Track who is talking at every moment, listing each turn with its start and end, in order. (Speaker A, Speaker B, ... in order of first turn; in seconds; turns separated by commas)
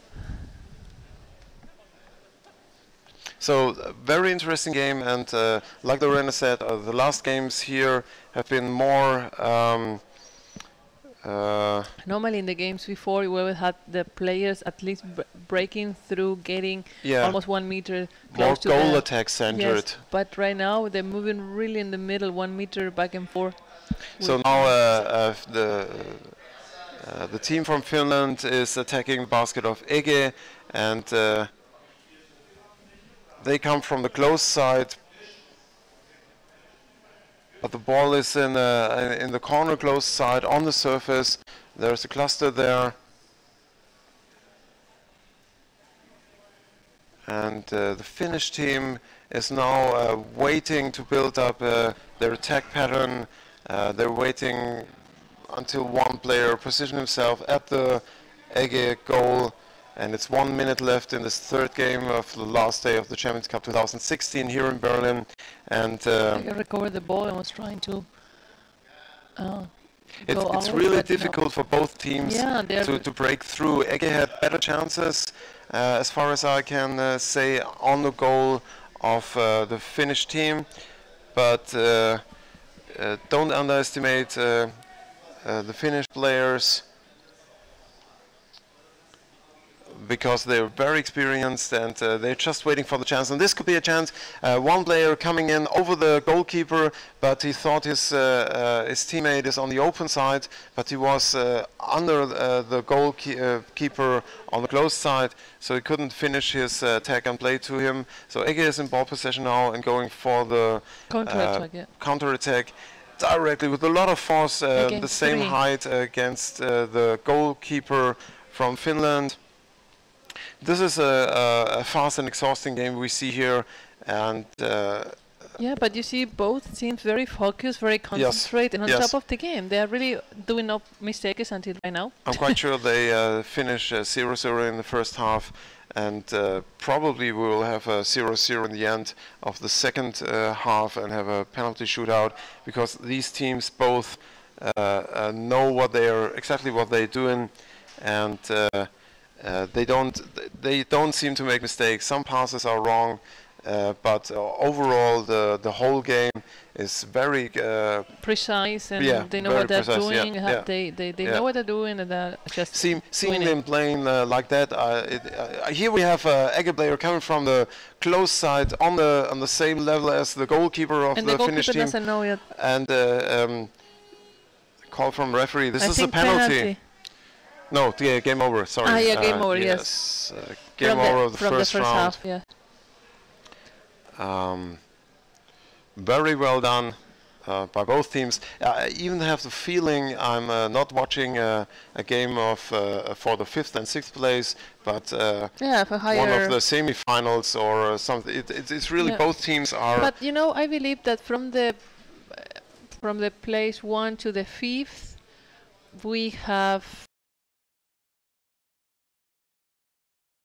Speaker A: 3.4-10.0, Speaker A: 11.2-11.9, Speaker B: 12.0-24.9, Speaker A: 17.0-17.4, Speaker A: 18.3-20.0, Speaker A: 24.2-26.4, Speaker A: 27.0-31.5, Speaker A: 33.4-35.0, Speaker A: 37.6-43.0, Speaker A: 47.3-55.0, Speaker A: 55.5-66.5, Speaker B: 66.3-68.1, Speaker B: 69.4-73.1, Speaker A: 70.3-80.7, Speaker A: 81.3-82.3, Speaker A: 82.8-84.8, Speaker A: 85.4-86.9, Speaker A: 89.9-119.4, Speaker B: 111.1-111.9, Speaker B: 114.8-115.6, Speaker A: 120.6-125.2, Speaker B: 125.6-132.6, Speaker A: 128.2-129.1, Speaker A: 132.3-158.2, Speaker B: 158.2-163.6, Speaker A: 159.0-161.4, Speaker A: 162.7-174.0, Speaker B: 171.2-172.4, Speaker A: 174.9-177.1, Speaker B: 175.8-176.8, Speaker A: 177.7-182.2, Speaker B: 178.8-182.5, Speaker A: 184.2-184.8, Speaker A: 185.9-200.1, Speaker B: 195.6-196.6, Speaker B: 199.0-207.1